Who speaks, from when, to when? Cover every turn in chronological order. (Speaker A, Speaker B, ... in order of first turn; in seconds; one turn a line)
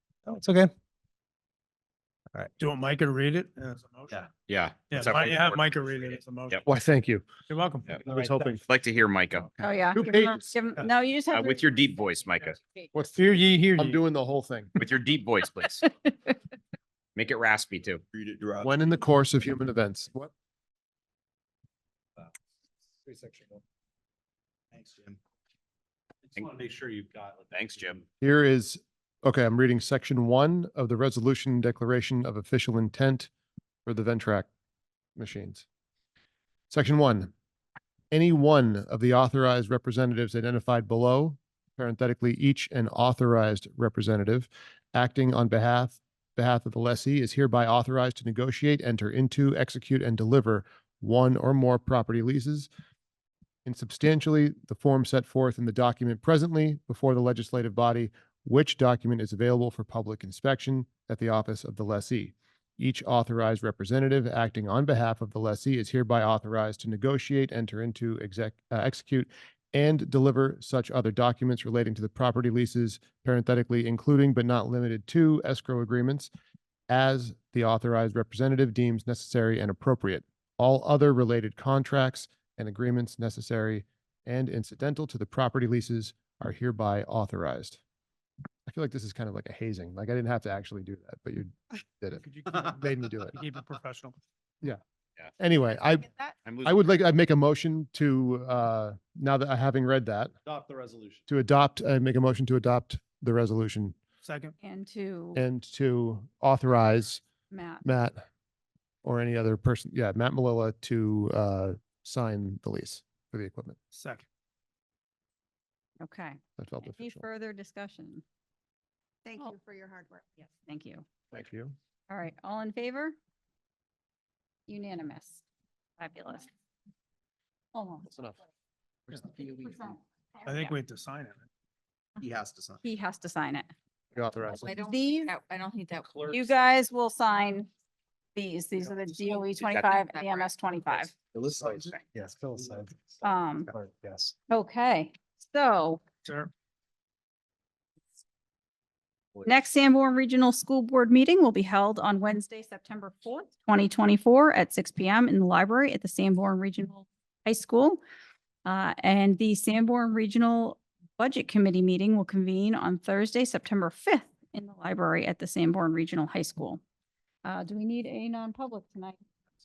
Speaker A: 0.3-0.7
Speaker B: 2.6-4.3
Speaker C: 4.5-5.7
Speaker B: 4.9-6.7
Speaker D: 6.7-7.3
Speaker B: 7.5-8.0
Speaker D: 8.1-8.6
Speaker A: 8.1-8.5
Speaker C: 8.7-9.5
Speaker E: 9.6-11.7
Speaker D: 9.9-10.5
Speaker C: 11.3-12.6
Speaker D: 12.9-14.8
Speaker B: 13.3-13.9
Speaker C: 14.8-15.9
Speaker C: 17.2-18.0
Speaker F: 18.3-18.6
Speaker D: 18.6-20.3
Speaker A: 23.1-23.6
Speaker G: 24.7-25.2
Speaker G: 26.3-28.0
Speaker C: 27.5-28.0
Speaker D: 28.2-33.3
Speaker D: 33.9-34.5
Speaker D: 35.2-35.6
Speaker D: 36.7-37.3
Speaker D: 38.1-52.7
Speaker D: 53.6-76.3
Speaker D: 76.9-87.8
Speaker D: 88.7-93.4
Speaker B: 92.1-94.2
Speaker D: 95.4-96.1
Speaker F: 96.0-96.4
Speaker C: 96.5-96.9
Speaker D: 96.6-100.3
Speaker G: 100.5-101.2
Speaker D: 101.3-104.0
Speaker B: 104.2-104.5
Speaker E: 104.6-105.4
Speaker D: 105.3-107.2
Speaker E: 107.5-107.8
Speaker D: 107.8-108.2
Speaker D: 109.0-113.8
Speaker B: 113.9-114.2
Speaker E: 116.0-118.2
Speaker D: 116.6-117.2
Speaker F: 119.2-120.2
Speaker E: 120.4-121.0
Speaker D: 121.3-121.8
Speaker E: 122.1-123.2
Speaker E: 124.7-125.4
Speaker E: 126.0-126.5
Speaker E: 127.7-128.3
Speaker D: 128.1-128.4
Speaker E: 129.4-130.8
Speaker B: 130.5-131.5
Speaker G: 132.2-132.8
Speaker E: 132.8-133.7
Speaker D: 134.1-134.7
Speaker E: 134.5-135.3
Speaker F: 134.5-136.2
Speaker E: 136.3-137.7
Speaker E: 138.4-141.1
Speaker F: 139.3-140.5
Speaker A: 142.1-144.3
Speaker E: 143.2-143.7
Speaker E: 144.5-146.0
Speaker B: 146.2-146.5
Speaker E: 149.4-158.0
Speaker E: 158.7-166.8
Speaker E: 167.4-169.2